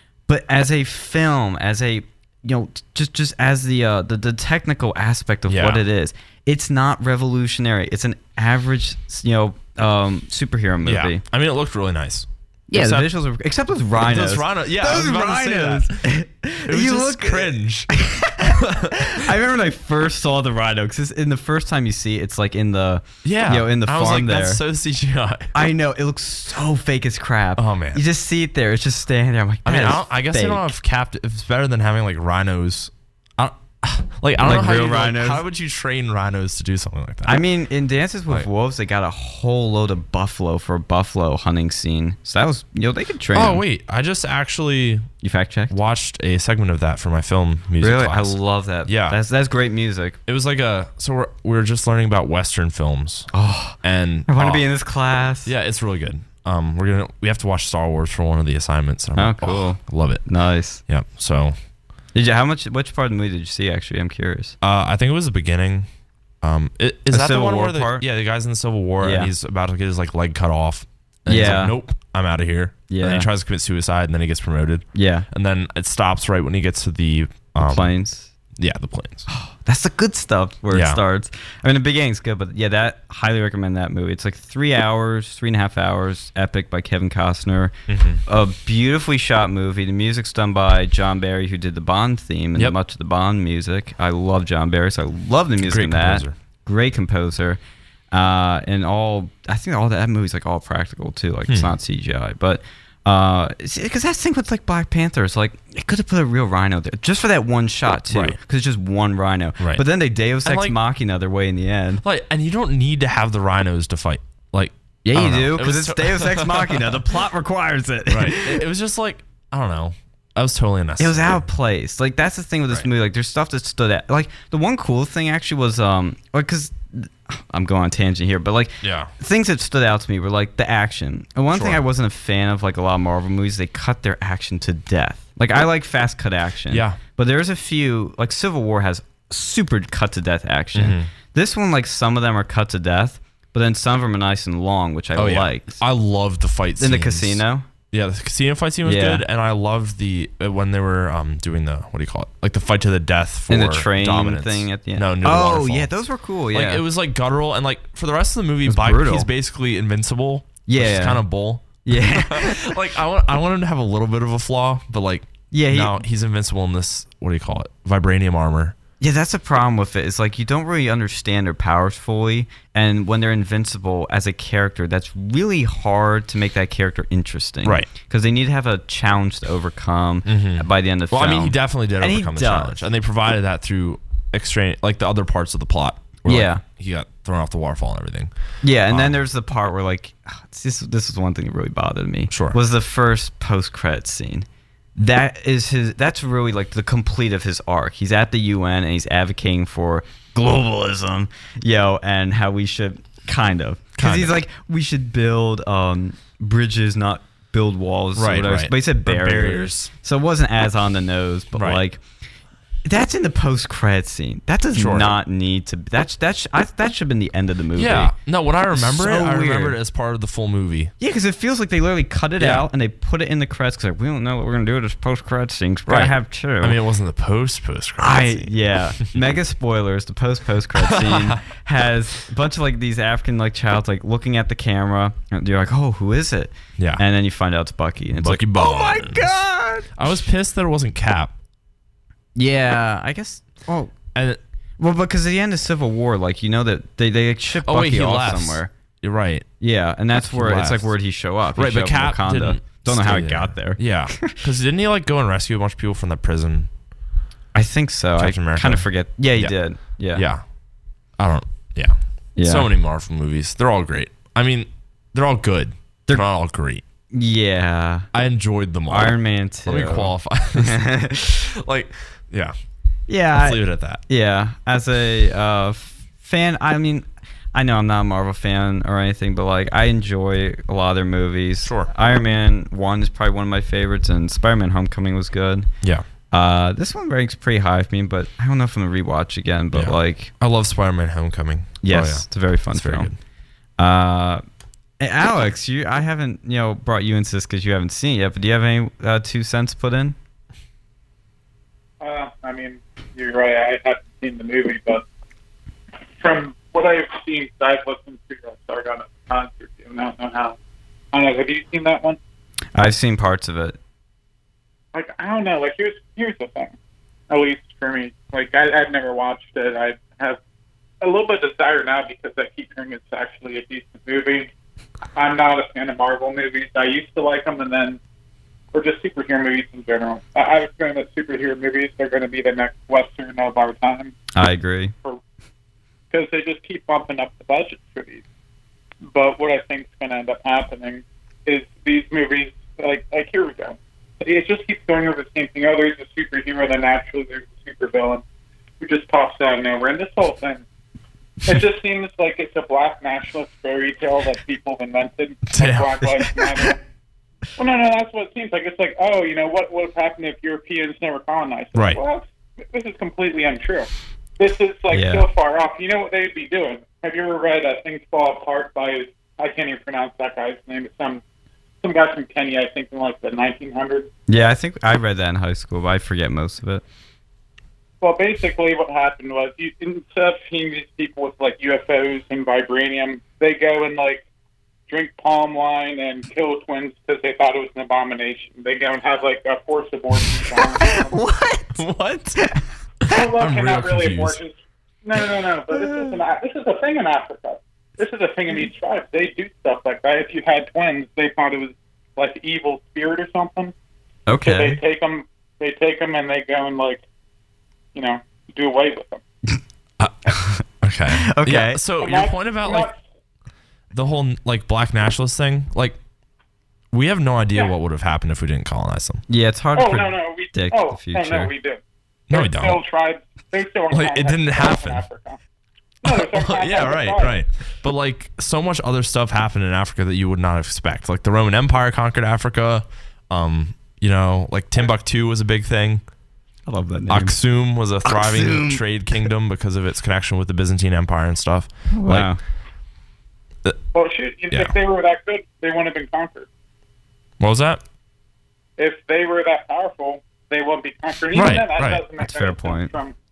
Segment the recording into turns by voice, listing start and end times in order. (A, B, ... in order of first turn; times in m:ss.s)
0:00.3-0:11.2 A
0:05.5-0:05.8 B
0:10.8-0:13.1 B
0:12.7-0:24.6 A
0:14.0-0:16.0 B
0:16.6-0:19.3 B
0:23.2-0:25.5 B
0:25.5-0:30.7 A
0:27.6-0:28.0 B
0:29.6-0:37.4 B
0:34.4-0:35.4 A
0:37.2-0:43.6 A
0:43.3-0:45.0 B
0:45.2-0:45.7 A
0:45.7-0:49.2 B
0:47.8-0:50.2 A
0:50.2-0:53.3 B
0:53.3-0:55.5 A
0:53.8-0:54.6 B
0:55.4-1:00.2 B
0:59.2-1:00.8 A
1:00.8-1:01.6 B
1:02.1-1:04.6 A
1:04.6-1:05.9 B
1:06.4-1:17.9 B
1:07.1-1:08.0 A
1:09.0-1:09.3 A
1:11.3-1:11.8 A
1:12.9-1:13.3 A
1:14.9-1:15.3 A
1:17.6-1:18.3 A
1:18.6-1:19.2 B
1:19.3-1:27.7 A
1:20.7-1:21.0 B
1:27.9-1:28.2 B
1:28.2-1:37.6 A
1:35.6-1:36.3 B
1:38.1-1:52.0 A
1:41.5-1:41.7 B
1:48.1-1:48.4 B
1:50.4-1:50.8 B
1:52.0-1:57.1 B
1:55.0-1:58.6 A
1:58.1-2:01.4 B
2:01.0-2:25.8 A
2:08.8-2:09.1 B
2:11.5-2:11.8 B
2:16.7-2:17.0 B
2:20.7-2:21.1 B
2:25.2-2:35.9 B
2:26.8-2:27.6 A
2:28.8-2:29.2 A
2:33.5-2:36.8 A
2:36.5-2:48.8 B
2:38.6-2:39.3 A
2:40.7-2:41.2 A
2:41.8-2:42.8 A
2:45.5-2:46.0 A
2:49.0-3:02.8 A
2:57.6-2:57.9 B
3:00.2-3:08.3 B
3:06.2-3:06.6 A
3:08.6-3:32.0 A
3:08.9-3:09.2 B
3:12.3-3:12.6 B
3:24.0-3:24.3 B
3:28.2-3:29.9 B
3:31.5-3:31.8 B
3:32.8-3:38.1 A
3:34.7-3:35.2 B
3:37.8-3:40.9 B
3:38.7-3:39.8 A
3:41.0-3:46.8 A
3:42.4-3:42.6 B
3:45.8-3:48.5 B
3:48.0-3:59.9 A
3:50.8-3:51.4 B
3:56.8-3:57.0 B
3:58.2-3:59.4 B
4:00.0-4:01.3 B
4:02.4-4:03.9 A
4:04.1-4:04.4 B
4:04.8-4:08.7 A
4:07.6-4:09.4 B
4:09.6-4:14.4 A
4:10.2-4:10.9 B
4:11.6-4:16.7 B
4:17.5-4:20.2 A
4:18.2-4:20.4 B
4:21.2-4:26.8 B
4:22.4-4:22.7 A
4:27.1-4:28.1 A
4:28.1-4:30.8 B
4:28.9-4:31.4 A
4:31.5-4:32.5 B
4:33.1-4:45.7 A
4:33.4-4:34.0 B
4:41.6-4:41.9 B
4:46.3-4:50.3 A
4:49.7-4:53.2 B
4:51.8-4:53.1 A
4:53.8-4:54.4 A
4:55.0-5:00.2 A
5:02.0-5:05.0 C
5:06.2-5:10.6 C
5:11.1-5:12.2 C
5:12.7-5:13.8 A
5:14.9-5:16.7 C
5:17.3-5:20.4 C
5:21.0-5:24.5 C
5:25.1-5:28.0 C
5:28.7-5:34.1 C
5:34.3-5:34.9 A
5:36.1-5:38.2 C
5:39.0-5:48.2 C
5:48.8-5:50.6 C
5:51.4-5:56.8 C
5:55.5-5:55.9 B
5:56.0-5:56.7 A
5:57.6-6:03.9 C
6:01.7-6:02.0 B
6:04.4-6:11.2 C
6:04.9-6:05.3 A
6:11.8-6:14.1 C
6:14.3-6:16.8 A
6:18.0-6:24.2 C
6:24.9-6:31.2 C
6:30.5-6:31.8 A
6:31.8-6:32.4 B
6:32.4-6:32.6 A
6:33.0-6:34.4 B
6:33.1-6:43.7 C
6:35.7-6:36.2 A
6:44.3-6:44.8 A
6:44.4-6:47.0 C
6:47.9-6:49.2 C
6:50.0-6:52.9 B
6:50.3-6:51.8 A
6:52.0-6:53.0 C
6:53.9-6:56.0 B
6:56.9-6:59.2 B
6:59.3-7:01.5 A
6:59.8-7:01.8 C
7:02.3-7:02.8 B
7:02.3-7:05.4 C
7:03.9-7:05.0 B
7:06.0-7:07.4 C
7:06.0-7:16.0 B
7:16.7-7:17.4 A
7:17.1-7:22.3 B
7:18.0-7:18.8 A
7:21.9-7:22.4 A
7:23.9-7:26.5 C
7:27.4-7:27.8 B
7:28.8-7:33.1 C
7:31.3-7:32.0 B
7:32.2-7:32.9 A